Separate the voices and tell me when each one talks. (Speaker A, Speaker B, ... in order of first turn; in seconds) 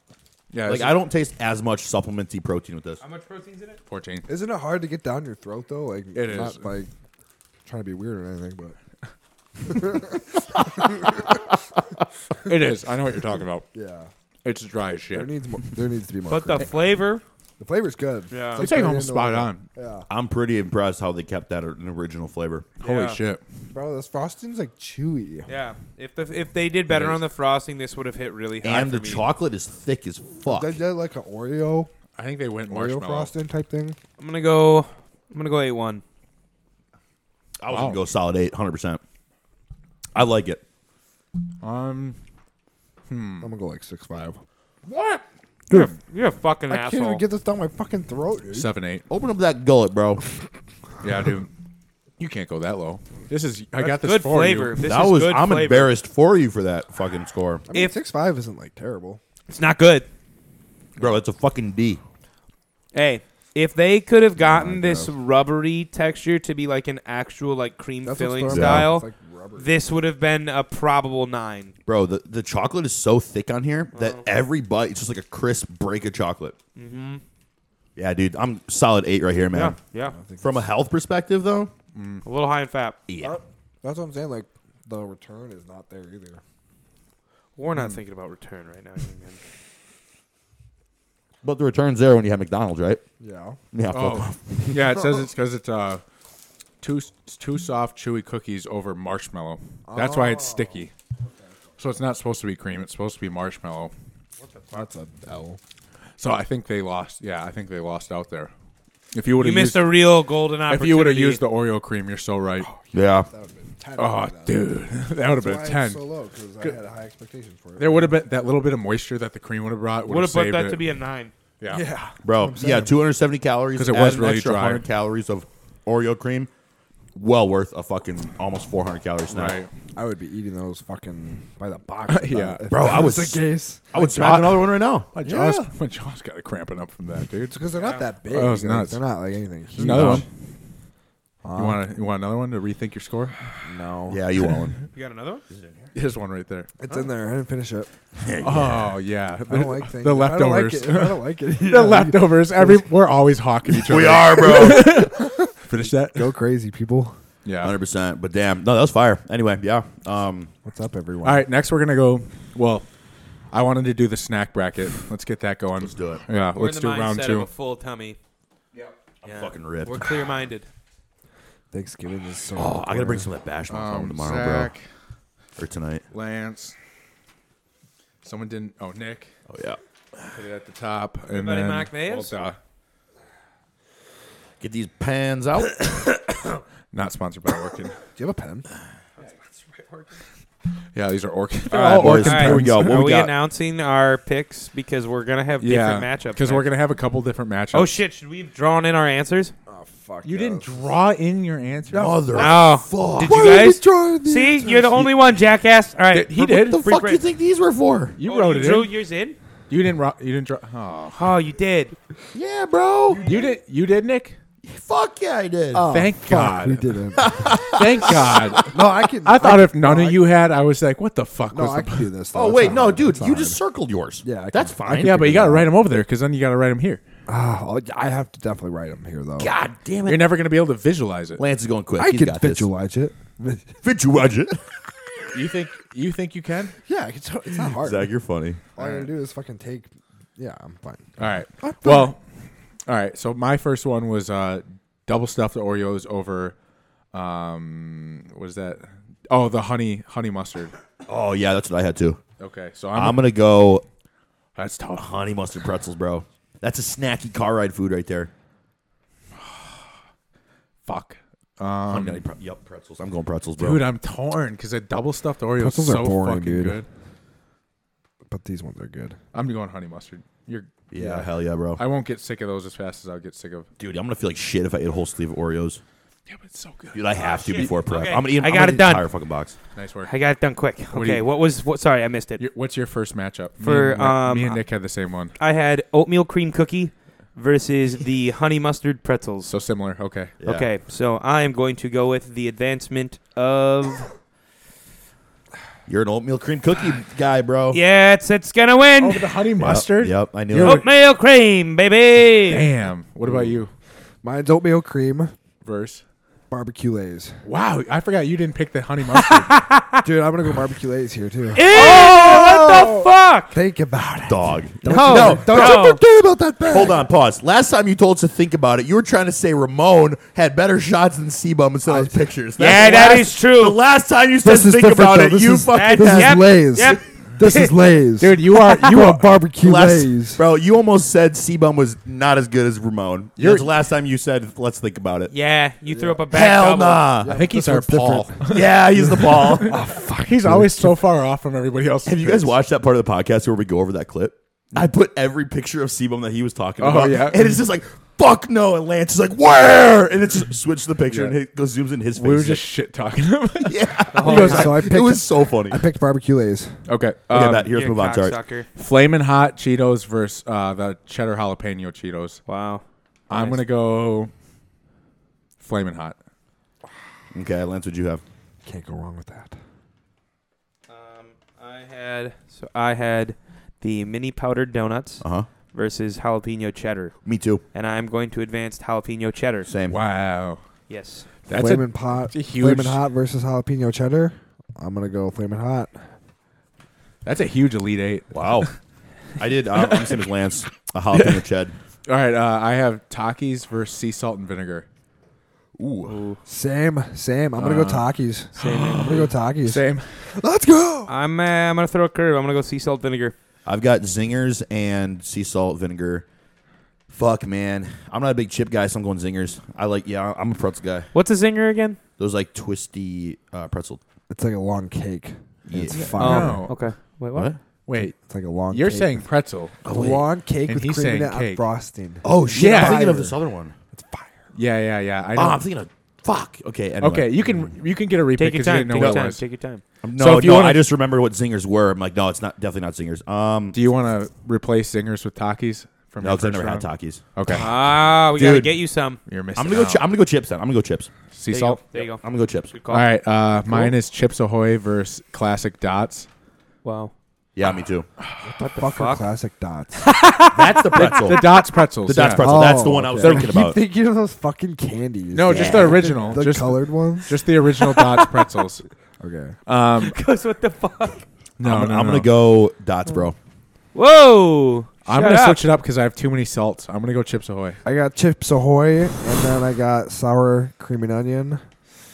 Speaker A: 0.5-1.0, 3.9-4.3, 6.2-6.7, 12.4-13.7, 14.4-15.3, 18.6-19.7, 22.8-23.4, 32.2-33.3, 37.7-38.0, 41.6-42.2, 43.1-43.5, 48.5-49.0, 51.0-51.5, 52.2-54.8, 82.0-82.2, 93.9-96.0, 96.8-100.9, 101.8-103.9, 106.2-108.5, 109.1-110.0, 110.7-112.7, 114.0-116.0, 117.8-120.8, 123.8-124.8, 129.3-129.7, 132.1-132.6, 133.9-137.6, 138.3-139.0, 139.7-140.3, 141.6-143.6, 145.9-146.7, 148.4-156.3, 157.4-157.7, 161.2-162.9, 163.5-167.5, 173.7-174.8, 176.1-176.8, 178.2-179.3, 180.3-182.6, 186.9-187.9, 190.9-193.1, 195.6-198.0, 200.2-202.2, 206.1-206.8, 208.2-208.9, 209.7-211.3, 213.2-214.4, 215.9-217.0, 217.7-218.7, 219.2-222.1, 225.0-227.0, 230.1-231.4, 235.3-236.8, 238.8-239.1, 241.2-242.2, 242.9-246.6, 247.1-250.7, 252.4-253.2, 254.6-255.1, 259.4-259.8, 260.9-262.2, 263.6-266.9, 269.3-271.2, 271.8-273.7, 276.3-277.0, 279.8-280.1, 280.9-281.2, 282.4-285.4, 289.5-290.3, 299.0-300.9, 302.5-303.7, 305.6-306.0, 307.4-309.6, 311.7-313.1, 327.4-329.5, 333.4-333.7, 337.3-342.5, 346.8-347.6, 352.1-354.9, 356.9-357.7, 358.8-362.4, 363.3-364.3, 365.6-366.2, 379.9-380.6, 381.5-383.0, 387.2-388.7, 389.8-390.2, 391.1-391.4, 392.1-394.9, 397.6-400.3, 416.0-416.8, 417.9-418.2, 418.7-419.9, 420.7-421.6, 422.5-423.1, 424.5-425.6, 427.0-429.4, 430.2-430.8, 433.8-437.7, 439.3-440.1, 441.3-441.8, 442.9-446.3, 451.0-453.6, 455.3-458.9, 459.7-460.2, 461.6-462.3, 465.1-467.8
Speaker B: 0.6-3.0, 20.1-22.7, 28.6-30.8, 37.6-39.0, 40.1-40.6, 44.9-45.2, 49.1-50.2, 54.8-57.7, 61.0-62.0, 68.5-68.9, 71.9-76.6, 78.0-79.8, 80.4-81.7, 83.1-83.4, 91.4-93.0, 93.7-94.9, 112.9-113.3, 122.2-126.5, 127.2-129.6, 132.7-135.1, 139.8-140.2, 144.1-144.8, 145.5-145.9, 148.2-149.0, 153.8-155.1, 157.6-160.5, 165.8-166.2, 169.2-170.1, 172.6-174.7, 175.6-176.1, 179.5-179.8, 184.6-186.0, 191.7-193.3, 201.9-203.6, 206.4-208.2, 212.3-213.3, 214.6-215.8, 217.2-218.6, 222.3-225.2, 229.4-230.3, 231.4-232.7, 233.8-235.3, 237.5-238.6, 251.1-252.2, 252.9-253.8, 255.0-258.3, 261.9-263.9, 270.9-271.8, 273.8-275.8, 276.9-279.6, 290.4-290.7, 295.9-297.8, 299.6-300.8, 314.3-315.9, 316.7-326.9, 329.6-335.3, 336.3-337.4, 338.5-339.8, 342.1-352.6, 353.6-355.8, 357.3-358.4, 367.3-368.2, 375.2-375.5, 377.2-377.6, 379.7-380.0, 388.3-388.7, 389.4-391.7, 395.8-396.2, 403.7-406.3, 407.1-411.1, 412.2-414.0, 415.7-416.4, 419.8-420.2, 422.2-423.8, 425.4-427.7, 428.9-429.2, 430.0-433.8, 436.2-437.7, 438.3-438.8, 439.6-441.1, 441.9-442.7, 447.6-448.1, 450.5-451.4, 452.1-453.8, 455.5-456.3, 461.6-463.4
Speaker C: 3.0-3.8, 16.3-17.2, 18.3-18.7, 22.8-23.2, 25.5-29.3, 34.2-36.0, 45.7-47.2, 53.8-55.9, 59.5-60.1, 62.9-71.7, 73.9-74.2, 76.8-77.2, 79.5-80.2, 82.2-83.0, 87.6-89.4, 104.4-104.9, 109.4-111.4, 120.1-121.3, 137.7-138.1, 144.9-145.4, 166.6-168.2, 169.2-170.7, 181.3-182.4, 191.8-196.7, 197.7-199.5, 202.3-207.2, 208.2-209.4, 211.2-211.9, 277.1-279.1, 280.1-282.4, 283.6-284.6, 285.4-289.5, 290.4-294.1, 297.7-299.4, 300.6-302.7, 309.1-310.1, 311.6-313.6, 314.9-316.0, 322.6-323.8, 325.7-327.7, 335.3-337.1, 354.1-354.8, 357.7-358.7, 362.5-363.6, 370.9-377.1, 377.7-379.7, 380.9-381.3, 396.1-396.4, 398.6-399.1, 401.1-403.4, 411.1-412.0, 415.9-417.5, 428.4-429.8, 437.5-439.2, 441.5-443.1, 446.8-447.1, 448.6-449.2, 450.0-451.6, 457.8-458.5, 460.0-461.2, 463.9-465.6
Speaker D: 4.3-6.9, 7.7-8.8, 9.7-11.4, 13.7-14.1, 15.1-16.8, 17.6-20.1, 23.7-25.5, 30.4-31.9, 32.7-34.0, 43.4-44.4, 46.7-48.7, 57.7-59.2, 64.4-65.1, 68.0-69.7, 80.0-80.7, 83.2-86.4, 93.2-93.6, 99.9-101.6, 104.7-105.6, 112.6-114.6, 115.3-118.1, 121.7-123.0, 130.0-134.2, 135.2-135.6, 137.5-140.3, 141.4-141.8, 143.6-144.2, 146.8-147.9, 149.5-152.9, 154.4-157.2, 160.7-161.5, 171.7-173.3, 188.2-188.7, 199.7-200.7, 201.9-202.5, 203.2-205.1, 215.7-217.6, 218.6-220.2, 221.5-223.6, 224.2-225.7, 227.3-229.5, 232.0-233.8, 236.9-238.1, 238.8-242.1, 265.6-266.8, 268.3-269.2, 271.0-271.2, 304.2-305.3, 306.5-307.4, 310.0-311.7, 313.5-317.1, 321.9-322.2, 324.4-330.4, 335.9-336.3, 337.2-340.9, 354.3-356.8, 368.6-369.6, 381.5-386.0, 396.5-401.1, 414.3-416.7, 418.0-419.2, 419.9-423.4, 423.9-424.4, 448.4-450.0, 452.4-457.4, 459.2-459.6, 467.9-471.6